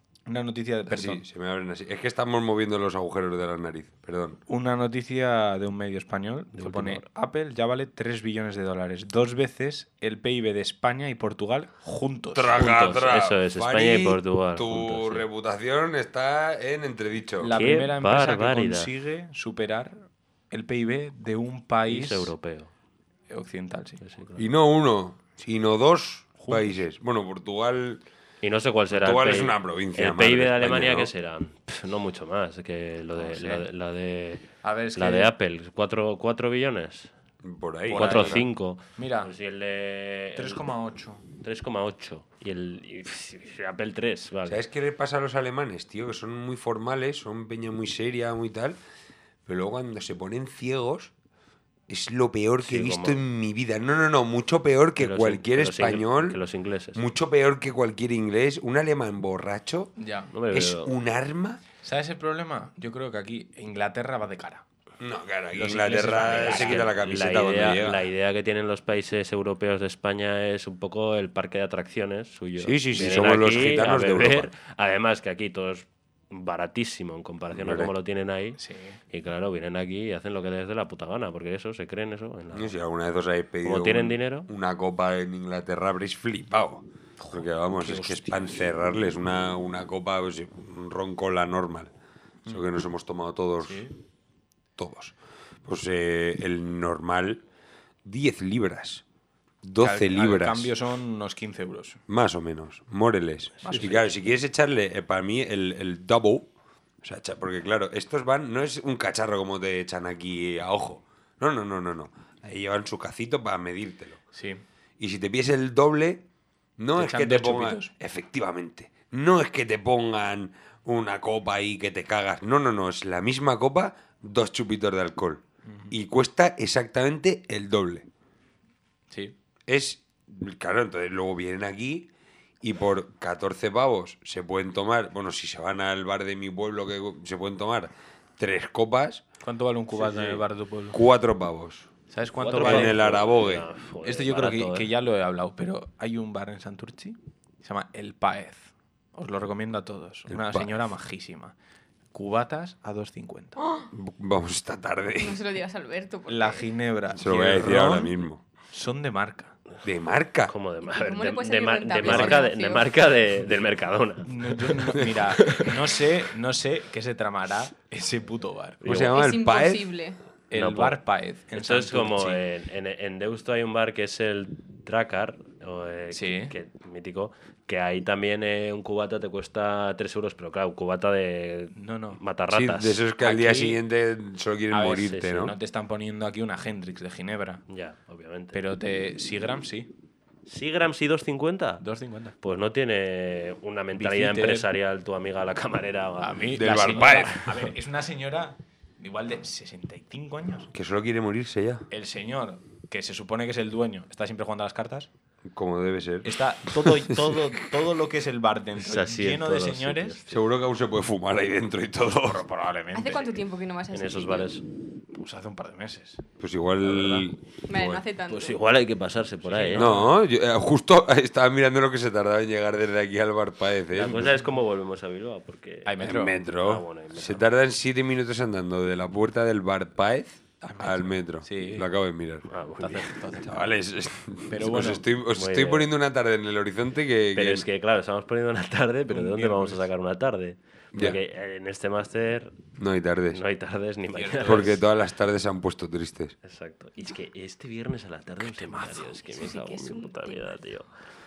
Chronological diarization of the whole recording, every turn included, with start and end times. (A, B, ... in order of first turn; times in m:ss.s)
0:00.3-0:01.2 A
0:00.9-0:04.4 B
0:04.5-0:12.5 A
0:06.5-0:07.0 C
0:12.3-0:17.5 B
0:12.5-0:15.3 C
0:17.4-0:22.3 A
0:17.4-0:18.9 C
0:21.9-0:22.7 C
0:23.3-0:24.0 A
0:24.0-0:24.5 C
0:24.4-0:28.0 B
0:26.4-0:26.8 A
0:28.4-0:34.4 C
0:28.9-0:31.1 B
0:33.1-0:33.7 A
0:34.6-0:35.3 A
0:35.0-0:37.1 C
0:37.4-0:38.4 B
0:37.9-0:39.3 A
0:37.9-0:40.6 C
0:40.4-0:41.2 A
0:41.4-0:44.6 C
0:44.5-0:48.8 B
0:49.5-0:51.1 B
0:51.9-0:56.4 B
0:52.6-0:53.2 C
0:55.0-0:57.0 C
0:57.0-0:59.9 B
1:00.0-1:00.3 A
1:00.3-1:01.0 C
1:00.5-1:01.6 B
1:01.8-1:04.6 A
1:05.0-1:08.1 B
1:05.5-1:06.9 A
1:06.3-1:18.6 C
1:12.6-1:14.5 B
1:17.5-1:17.9 B
1:18.6-1:19.0 A
1:19.1-1:22.7 C
1:22.5-1:31.9 B
1:23.6-1:24.5 C
1:27.2-1:28.6 A
1:32.5-1:33.9 B
1:33.6-1:34.0 A
1:34.8-1:35.1 B
1:35.6-1:37.4 B
1:38.0-1:39.0 B
1:39.6-1:40.7 B
1:39.8-1:42.0 A
1:42.1-1:46.5 B
1:43.6-1:44.1 A
1:47.0-1:54.2 B
1:54.3-1:54.6 A
1:55.0-1:56.2 B
1:56.8-2:08.1 B
1:57.0-1:57.9 A
2:05.7-2:05.9 A
2:09.1-2:09.4 A
2:09.7-2:12.1 B
2:12.6-2:19.2 B
2:19.4-2:21.0 A
2:19.9-2:21.9 B
2:22.1-2:23.0 A
2:22.4-2:24.9 C
2:22.6-2:23.7 B
2:24.0-2:31.6 A
2:30.3-2:30.7 B
2:32.1-2:33.6 A
2:33.9-2:35.4 B
2:35.2-2:36.7 D
2:36.3-2:38.2 A
2:37.2-2:38.4 B
2:38.7-2:39.6 A
2:39.8-2:40.5 B
2:40.5-2:45.7 C
2:40.8-2:42.9 D
2:42.0-2:42.4 A
2:44.2-2:48.8 A
2:48.8-2:49.9 B
2:48.9-2:50.2 D
2:50.5-2:52.5 A
2:50.5-2:51.0 C
2:51.6-3:03.0 C
2:56.1-2:56.5 A
3:01.7-3:02.2 A
3:02.5-3:05.6 B
3:03.2-3:03.8 A
3:04.7-3:07.6 A
3:04.9-3:05.3 C
3:07.7-3:08.6 C
3:08.5-3:09.9 A
3:10.5-3:11.8 C
3:11.8-3:12.4 A
3:12.4-3:16.6 C
3:14.0-3:14.7 A
3:16.2-3:20.7 A
3:16.6-3:17.7 B
3:20.7-3:21.9 B
3:21.9-3:25.1 A
3:25.5-3:27.4 B
3:26.2-3:30.2 A
3:28.8-3:30.4 C
3:30.3-3:32.4 B
3:32.3-3:33.4 A
3:32.9-3:34.6 D
3:33.9-3:34.6 C
3:35.1-3:36.2 A
3:36.4-3:38.0 B
3:36.8-3:37.3 A
3:37.7-3:38.6 D
3:38.2-3:40.0 C
3:39.4-3:40.2 A
3:39.7-3:44.4 B
3:44.0-3:47.5 C
3:45.9-3:46.4 A
3:46.0-3:52.5 B
3:50.6-3:51.9 A
3:52.5-3:53.2 C
3:52.8-3:53.6 A
3:53.4-3:57.7 B
3:54.5-3:55.0 A
3:55.3-3:55.9 C
3:57.4-4:02.6 C
3:59.1-3:59.9 A
4:02.8-4:03.4 B
4:03.3-4:04.8 C
4:04.1-4:04.8 A
4:04.4-4:06.4 B
4:06.4-4:10.9 C
4:08.5-4:09.1 A
4:09.3-4:10.5 D